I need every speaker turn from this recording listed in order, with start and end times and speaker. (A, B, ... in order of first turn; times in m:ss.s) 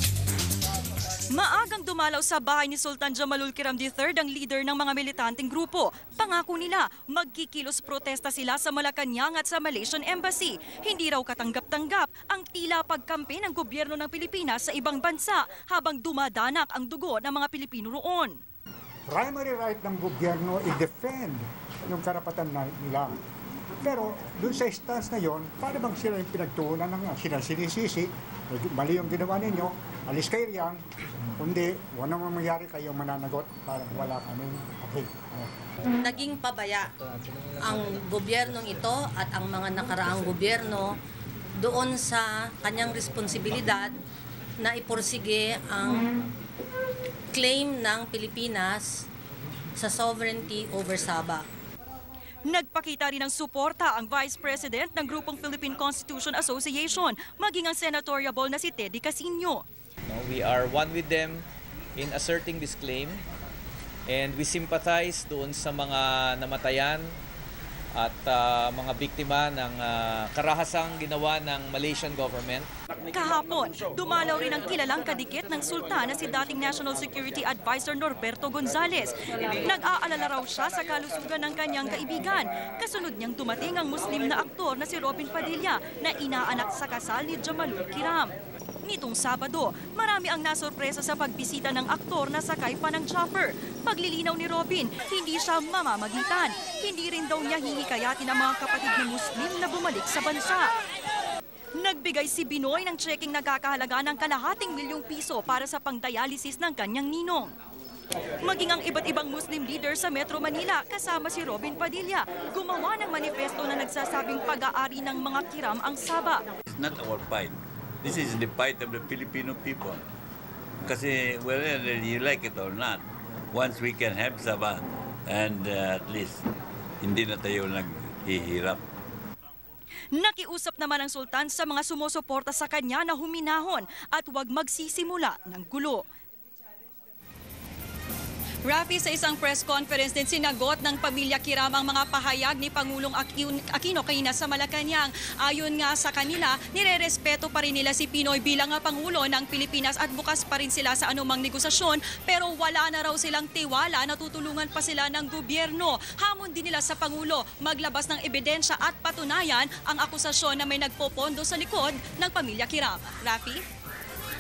0:01.3-0:18.4 A
0:19.1-0:23.2 B
0:23.8-0:30.8 B
0:31.4-0:35.5 B
0:36.0-0:36.9 C
0:37.6-0:41.0 C
0:41.6-0:44.0 C
0:44.6-0:46.1 C
0:47.3-0:49.1 C
0:49.7-0:51.4 C
0:52.4-0:59.6 A
1:00.1-1:01.4 D
1:02.0-1:03.2 D
1:04.1-1:07.1 D
1:07.9-1:12.7 D
1:13.1-1:40.7 A
1:41.8-1:47.5 A
1:48.4-1:56.4 A
1:56.7-2:00.0 E
2:00.8-2:06.5 E
2:07.0-2:08.8 E
2:10.1-2:16.0 A
2:18.6-2:43.6 A